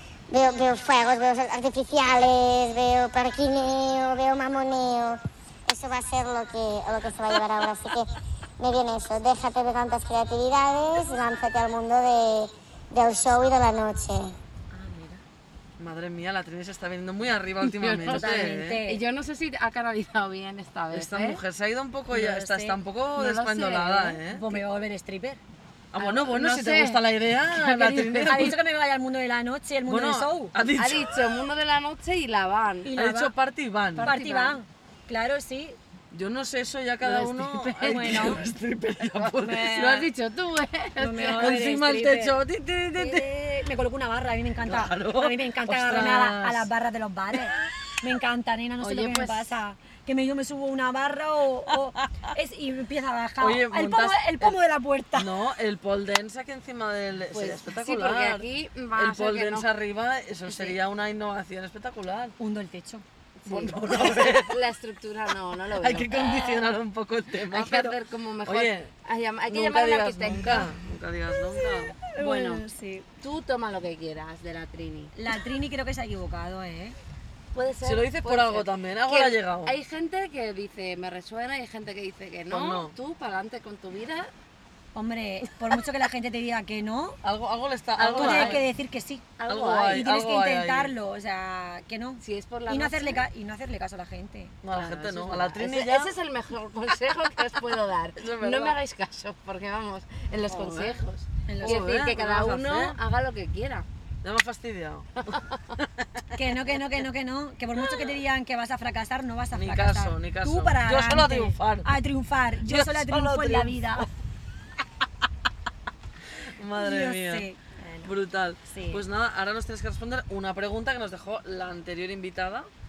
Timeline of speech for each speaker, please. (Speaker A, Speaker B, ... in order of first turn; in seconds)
Speaker A: 0.3-8.1, 8.6-14.4
Speaker B: 14.7-15.2, 18.1-19.0, 22.1-22.8, 24.3-25.4, 28.3-30.5, 32.8-33.3, 34.0-35.8, 37.9-38.4, 39.3-40.1, 41.0-42.4, 43.0-55.3, 62.4-63.0, 71.5-73.1, 75.1-77.0, 85.0-87.2, 88.2-94.6, 101.5-101.9, 106.3-114.1, 116.8-118.1, 118.7-119.0
Speaker C: 15.8-18.8, 20.9-24.6, 25.9-28.6, 29.9-31.2, 32.9-34.2, 36.1-40.1, 41.3-43.3, 44.6-46.7, 51.7-52.0, 53.4-54.6, 55.1-62.4, 63.5-64.6, 65.8-68.9, 69.5-72.0, 77.8-79.8, 82.5-83.0, 87.2-88.7, 89.5-90.9, 94.6-96.2, 98.2-98.8, 100.6-101.0, 101.6-103.0, 104.2-106.5, 109.5-112.0, 112.6-114.1, 116.4-117.5, 118.0-122.7
Speaker D: 17.6-21.4, 23.1-24.2, 26.0-28.5, 30.8-32.9, 34.0-34.6, 37.0-38.5, 39.5-41.6, 48.8-49.5, 57.3-59.7, 60.5-60.8, 63.4-66.7, 67.5-70.7, 72.1-72.7, 73.2-75.1, 77.5-84.3, 88.0-88.7, 89.4-90.0, 92.2-93.2, 94.7-103.9